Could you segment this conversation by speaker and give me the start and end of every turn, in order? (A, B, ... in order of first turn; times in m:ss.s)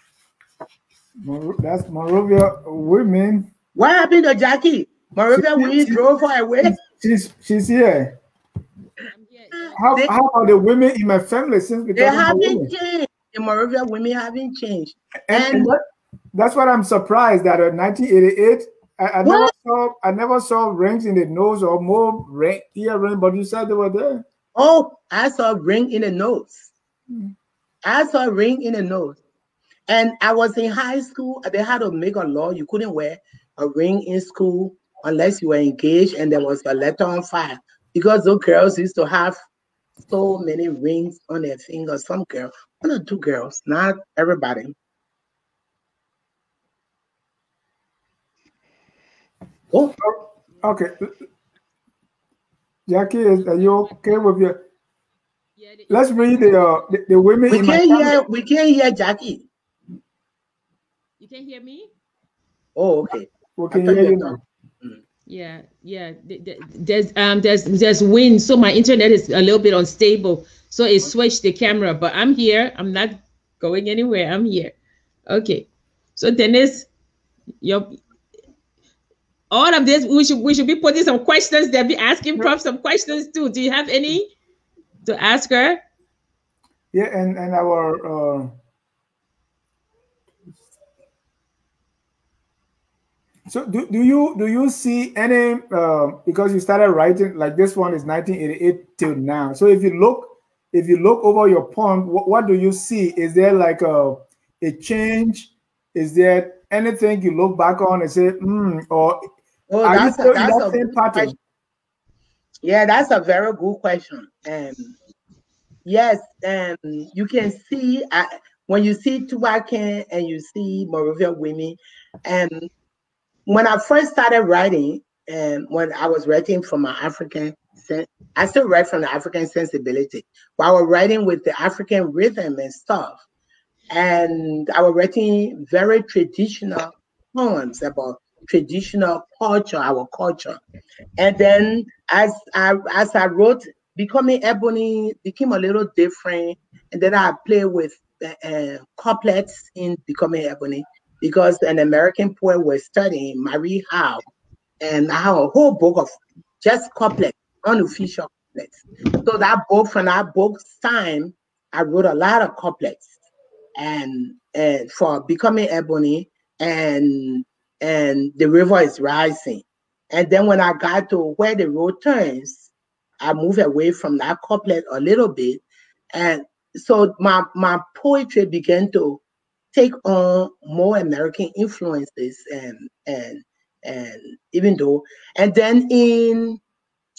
0:01.2-0:03.5 A
0:03.8-0:06.8 B
0:05.3-0:06.0 A
0:06.6-0:08.1 A
0:09.1-0:09.8 C
0:09.6-0:10.1 B
0:09.8-0:12.7 A
0:12.0-0:15.7 B
0:15.3-0:15.8 A
0:16.3-0:24.2 A
0:19.2-0:19.5 B
0:24.5-0:26.7 B
0:27.8-0:29.2 B
0:29.9-0:39.4 B
0:40.0-0:44.7 B
0:50.0-0:51.1 A
0:52.9-0:54.6 A
0:53.4-0:54.2 C
0:55.6-0:56.5 C
0:55.9-0:58.2 A
0:57.5-0:59.5 B
1:01.2-1:01.9 C
1:02.8-1:05.0 B
1:03.6-1:04.4 A
1:05.3-1:14.7 C
1:15.3-1:16.9 C
1:17.6-1:18.0 C
1:19.5-1:24.3 C
1:25.0-1:25.8 C
1:26.9-1:28.5 A
1:33.5-1:49.3 A
1:49.7-1:51.4 B
1:49.8-1:51.4 A
1:52.6-1:54.9 B
1:55.8-2:02.7 B
2:03.5-2:13.2 B
2:13.9-2:20.6 B
2:21.2-2:34.2 B
2:34.8-2:43.1 B
2:43.8-2:52.7 B
2:53.2-2:59.2 B
2:59.7-3:06.6 B